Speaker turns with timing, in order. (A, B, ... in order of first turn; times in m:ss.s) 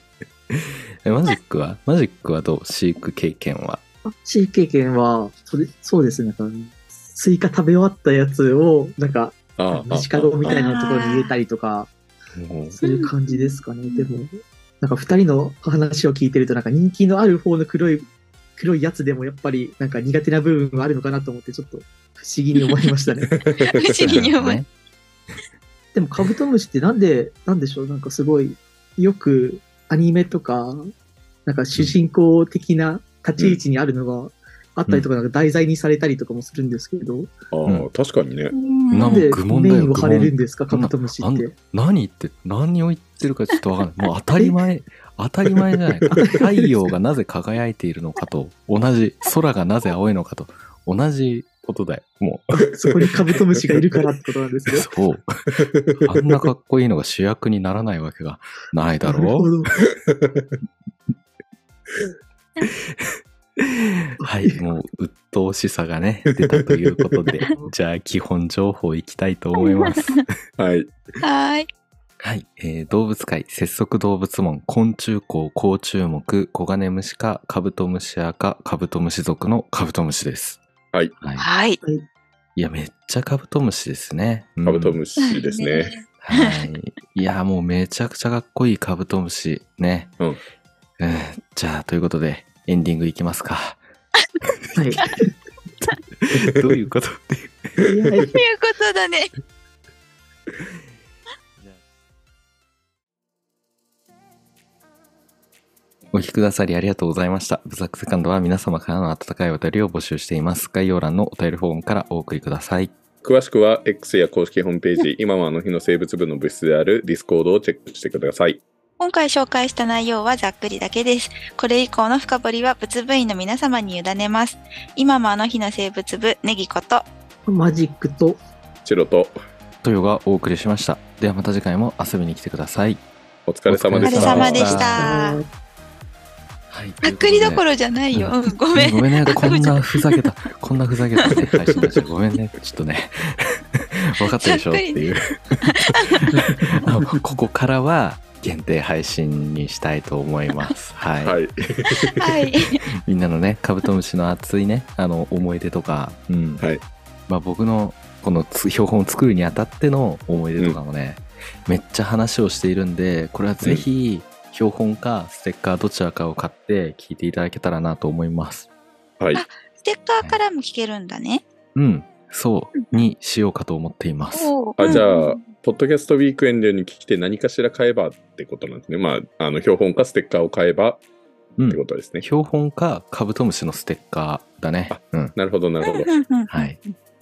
0:00.5-0:03.8 A
0:04.1-0:11.9 B
0:09.6-0:10.7 C
0:10.4-0:11.4 D
0:12.3-0:12.8 C
0:12.8-0:23.3 B
0:12.8-0:14.1 D
0:23.3-0:24.0 C
0:23.7-0:24.6 D
0:24.1-0:24.7 A
0:25.9-0:30.8 B
0:31.5-0:37.3 B
0:37.5-0:38.5 C
0:38.5-0:39.3 D
0:38.9-0:41.5 B
0:38.9-0:52.6 A
0:46.1-0:46.7 B
0:52.7-0:54.9 B
0:54.7-0:55.3 A
0:55.6-0:56.0 C
0:56.0-0:59.5 A
0:59.0-0:59.8 B
1:00.1-1:00.5 C
1:03.6-1:10.2 A
1:04.3-1:04.7 B
1:09.6-1:10.2 D
1:10.6-1:11.0 C
1:11.2-1:11.7 D
1:12.2-1:20.6 A
1:21.2-1:21.5 A
1:21.4-1:21.8 D
1:22.6-1:25.0 A
1:24.6-1:26.0 C
1:25.2-1:26.6 D
1:26.2-1:30.1 A
1:31.0-1:33.8 A
1:34.8-1:35.3 B
1:36.2-1:37.7 A
1:37.8-1:38.4 B
1:38.3-1:39.3 D
1:46.1-1:52.9 A
1:53.2-1:58.6 C
1:59.0-2:07.1 D
2:07.5-2:08.4 B
2:08.8-2:09.4 C
2:09.8-2:13.0 A
2:13.5-2:15.0 C
2:13.7-2:15.1 A
2:14.0-2:15.4 D
2:15.0-2:15.5 B
2:16.7-2:25.6 A
2:17.0-2:20.2 D
2:24.4-2:25.1 D
2:25.6-2:26.2 D
2:26.5-2:31.4 A
2:31.2-2:32.0 C
2:32.0-2:32.8 D
2:33.0-2:36.6 A
2:37.3-2:48.7 A
2:49.4-2:51.4 D
2:51.8-2:55.0 A
2:52.8-2:53.1 D
2:54.3-2:55.4 D
2:54.8-3:01.0 C
3:01.6-3:05.4 A
3:01.7-3:02.3 C
3:04.9-3:06.1 C
3:05.9-3:06.9 D
3:06.5-3:06.8 A